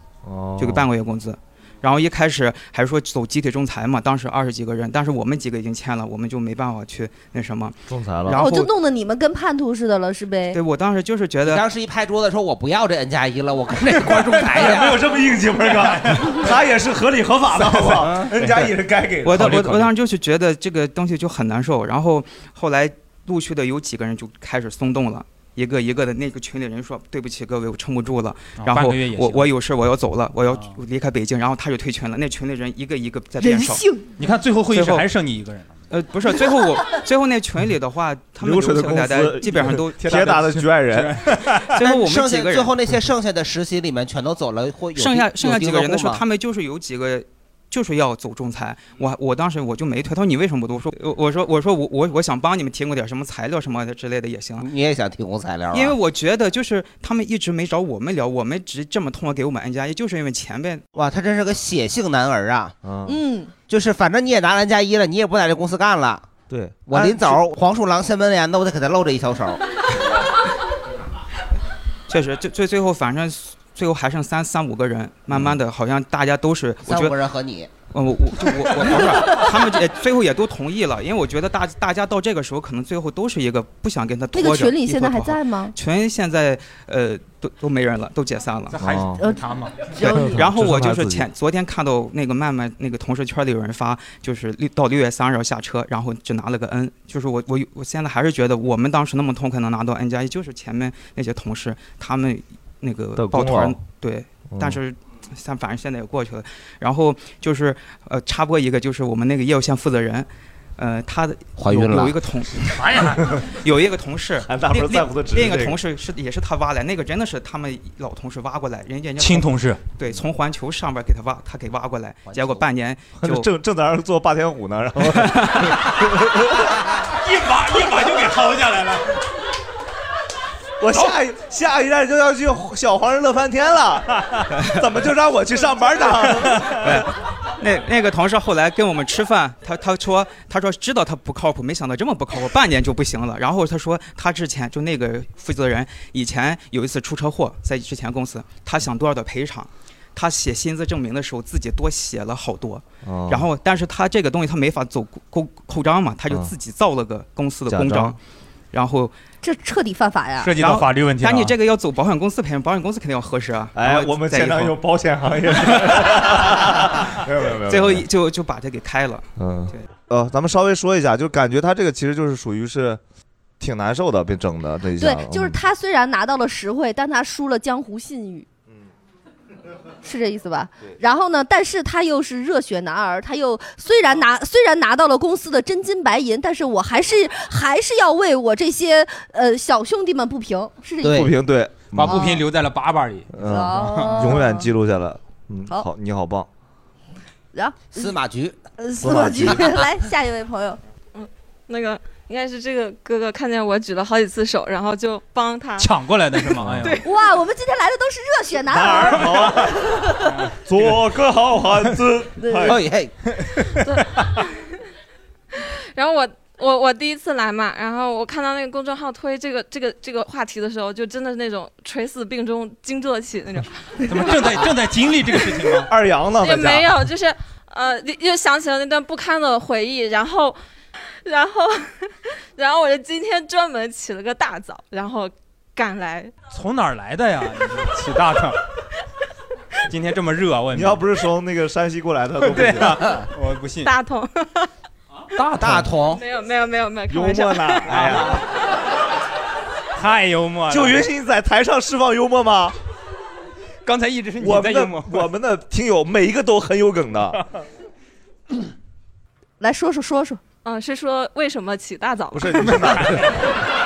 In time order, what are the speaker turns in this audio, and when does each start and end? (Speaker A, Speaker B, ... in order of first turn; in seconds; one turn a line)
Speaker A: 0.2-0.9
Speaker B: 0.6-8.7
Speaker A: 7.9-8.4
Speaker C: 8.3-10.6
Speaker B: 10.5-11.6
Speaker D: 11.4-15.0
Speaker A: 14.1-19.8
Speaker E: 15.6-16.3
Speaker D: 17.9-18.3
Speaker B: 19.2-33.8
Speaker E: 19.3-19.9
Speaker E: 28.6-29.5
Speaker C: 33.4-34.0
Speaker E: 34.2-35.8
Speaker B: 34.7-35.1
Speaker B: 35.9-40.4
Speaker A: 38.4-41.2
Speaker E: 40.1-41.7
Speaker B: 41.7-42.7
Speaker D: 41.8-46.2
Speaker B: 45.0-54.7
Speaker D: 54.6-56.0
Speaker B: 55.7-60.8
Speaker D: 60.9-62.8
Speaker A: 62.8-63.2
Speaker C: 63.0-63.5
Speaker D: 63.7-66.2
Speaker A: 66.5-67.4
Speaker D: 66.9-69.6
Speaker B: 72.1-77.2
Speaker A: 75.3-75.6
Speaker D: 76.8-77.7
Speaker B: 77.9-88.8
Speaker C: 84.3-85.7
Speaker E: 88.7-89.8
Speaker A: 88.8-89.2
Speaker C: 90.0-90.3
Speaker A: 90.0-91.3
Speaker B: 90.0-123.5
Speaker A: 103.2-103.8
Speaker A: 104.5-104.8
Speaker D: 111.6-112.2
Speaker E: 112.8-113.3
Speaker A: 114.4-115.8
Speaker E: 119.2-119.8
Speaker D: 122.3-122.7
Speaker A: 123.2-126.7
Speaker B: 125.2-125.7
Speaker E: 127.1-129.2
Speaker A: 130.8-137.0
Speaker B: 136.8-158.2
Speaker A: 153.0-153.5
Speaker A: 157.7-158.1
Speaker B: 158.7-159.1
Speaker C: 159.4-160.5
Speaker E: 160.4-161.5
Speaker B: 160.6-164.8
Speaker A: 163.7-168.1
Speaker B: 165.7-166.3
Speaker B: 167.7-169.8
Speaker A: 169.4-173.0
Speaker A: 173.6-175.6
Speaker C: 175.0-178.4
Speaker C: 180.0-191.3
Speaker D: 191.0-191.3
Speaker A: 191.1-192.3
Speaker E: 191.9-194.3
Speaker C: 192.1-192.4
Speaker A: 193.3-196.5
Speaker C: 193.4-194.7
Speaker C: 197.5-198.1
Speaker D: 197.9-198.6
Speaker C: 198.8-200.8
Speaker A: 199.0-199.8
Speaker F: 201.1-205.9
Speaker E: 205.8-207.0
Speaker F: 206.5-207.1
Speaker A: 206.6-206.9
Speaker C: 207.0-210.1
Speaker A: 208.7-212.8
Speaker E: 210.2-210.9
Speaker C: 212.4-212.7
Speaker D: 212.7-213.1
Speaker E: 213.4-214.0
Speaker F: 213.8-214.8
Speaker F: 215.5-224.5
Speaker E: 224.0-225.9
Speaker A: 225.8-227.0
Speaker F: 226.4-230.6
Speaker F: 231.2-236.3
Speaker E: 236.5-238.6
Speaker E: 239.9-241.0
Speaker A: 240.7-243.2
Speaker E: 242.4-243.9
Speaker F: 243.8-244.7
Speaker E: 245.3-246.0
Speaker D: 245.6-246.2
Speaker F: 246.1-248.0
Speaker A: 247.1-248.4
Speaker E: 247.9-248.4
Speaker E: 249.9-251.1
Speaker A: 250.7-252.8
Speaker E: 253.8-255.3
Speaker A: 254.4-257.4
Speaker C: 259.6-260.4
Speaker F: 260.6-262.9
Speaker A: 262.3-263.5
Speaker E: 262.8-263.4